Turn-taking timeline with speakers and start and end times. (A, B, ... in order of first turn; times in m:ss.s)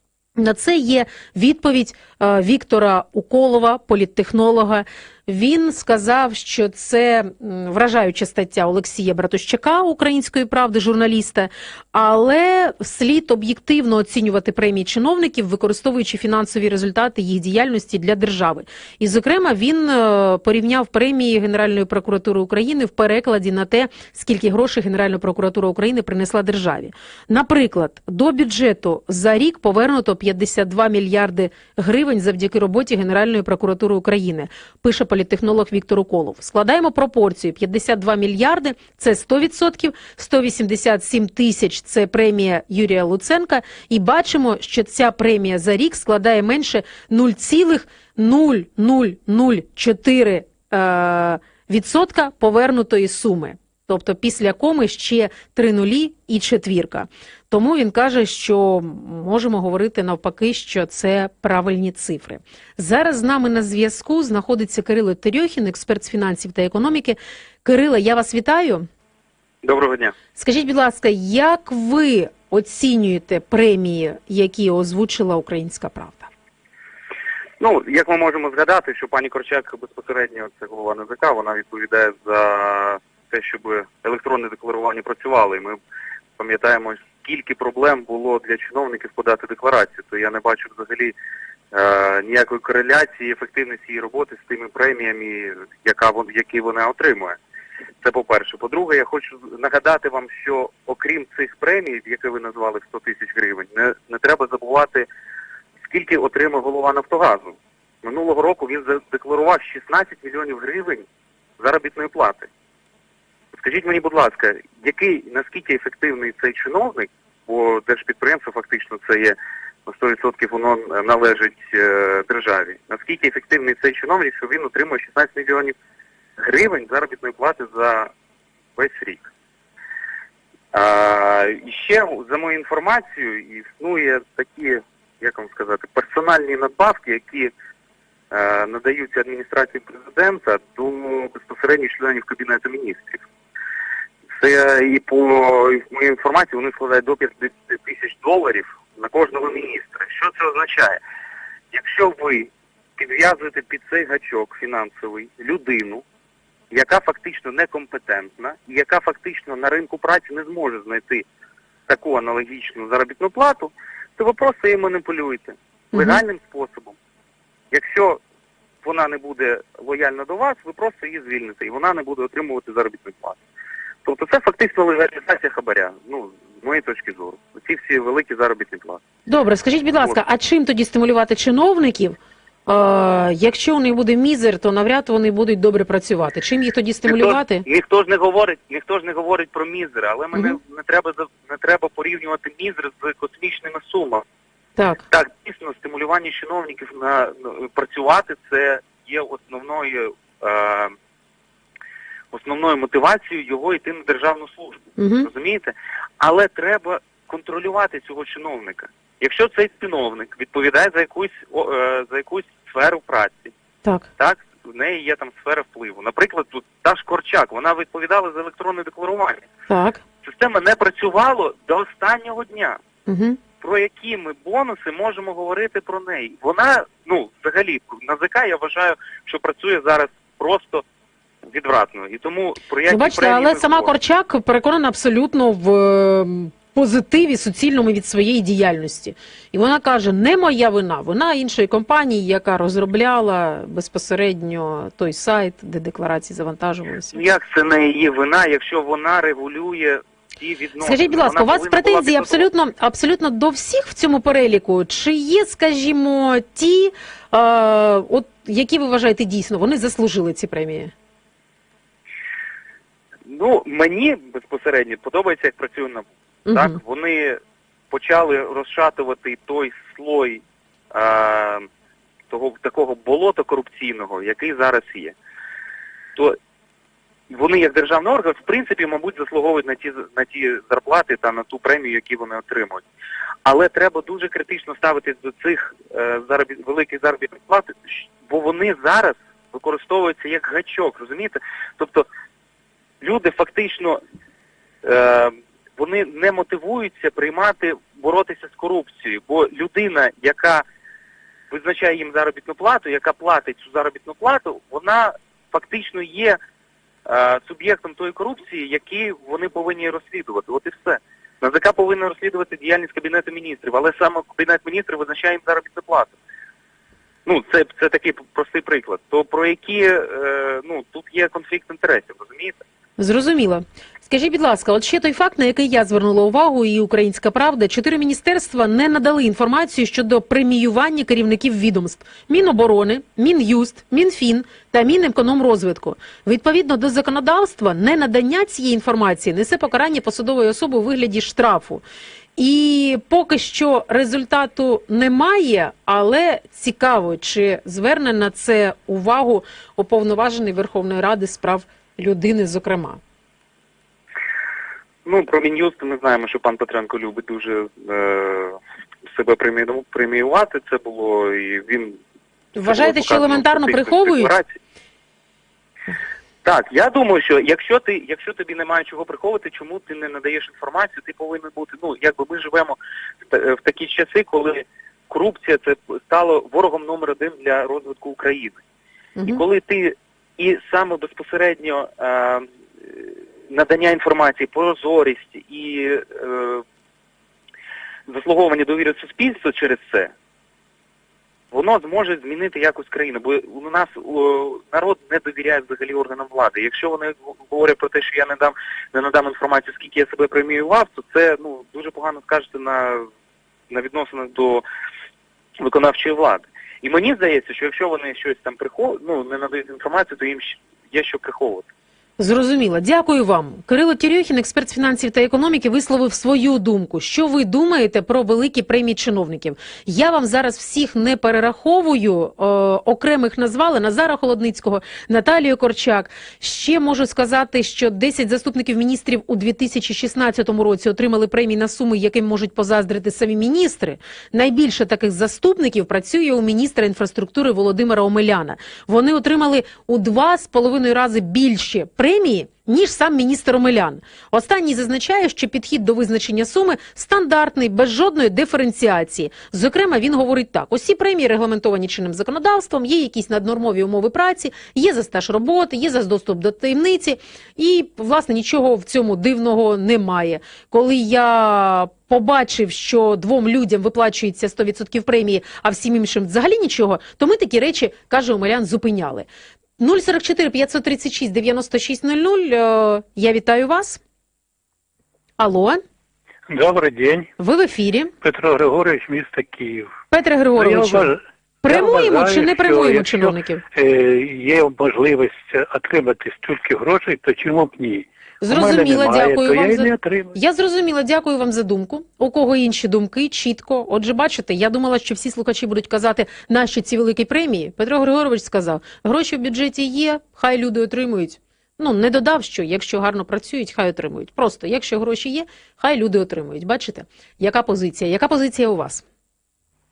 0:00.4-1:08.8 A
1:09.6-1:10.1 B
1:10.4-1:16.3 A
1:17.6-1:25.8 B
1:26.4-1:31.1 B
1:31.7-1:37.4 B
1:38.0-1:45.0 B
1:45.8-1:51.0 B
1:51.6-1:52.5 B
1:53.5-2:05.8 B
2:06.4-2:08.1 B
2:08.8-2:09.3 B
2:10.7-2:17.5 B
2:18.3-2:23.2 B
2:24.4-2:31.0 B
2:31.7-2:36.0 B
2:36.7-2:41.2 B
2:41.9-2:47.0 B
2:45.9-2:46.2 A
2:47.7-2:48.2 B
2:48.8-2:53.4 B
2:54.0-2:59.0 B
2:59.3-3:07.6 A
3:07.0-3:14.2 B
3:14.8-3:15.0 A
3:15.1-3:20.9 B
3:22.3-3:33.5 B
3:25.0-3:25.3 A
3:34.2-3:39.5 B
3:39.7-3:40.0 A
3:40.2-3:42.8 B
3:43.1-3:43.4 A
3:43.6-3:50.8 B
3:51.5-3:53.9 B
3:52.8-4:07.2 A
4:07.1-4:12.5 B
4:10.8-4:20.9 A
4:23.2-4:27.4 B
4:26.5-4:26.8 A
4:27.9-4:31.7 B
4:32.3-4:35.2 B
4:37.3-4:42.8 B
4:43.4-4:52.1 B
4:53.0-4:54.0 B
4:54.8-5:00.6 B
5:01.5-5:06.4 B
5:07.1-5:16.2 B
5:17.2-5:22.6 B
5:23.0-5:41.8 A
5:42.4-5:53.0 A
5:55.0-6:02.0 B
6:02.6-6:04.3 A
6:02.6-6:04.5 B
6:06.4-6:12.8 B
6:13.3-6:18.6 B
6:19.2-6:19.4 A
6:19.3-6:26.6 B
6:28.1-6:30.1 B
6:31.5-6:43.1 B
6:43.7-6:44.6 B
6:45.6-6:51.7 B
6:52.2-7:49.3 A
7:49.8-7:54.0 A
7:55.4-7:55.8 A
7:56.5-7:57.3 C
7:57.4-7:58.1 A
7:58.2-7:59.9 C
8:00.1-8:01.1 A
8:00.5-8:10.3 C
8:01.6-8:03.6 A
8:08.4-8:29.0 A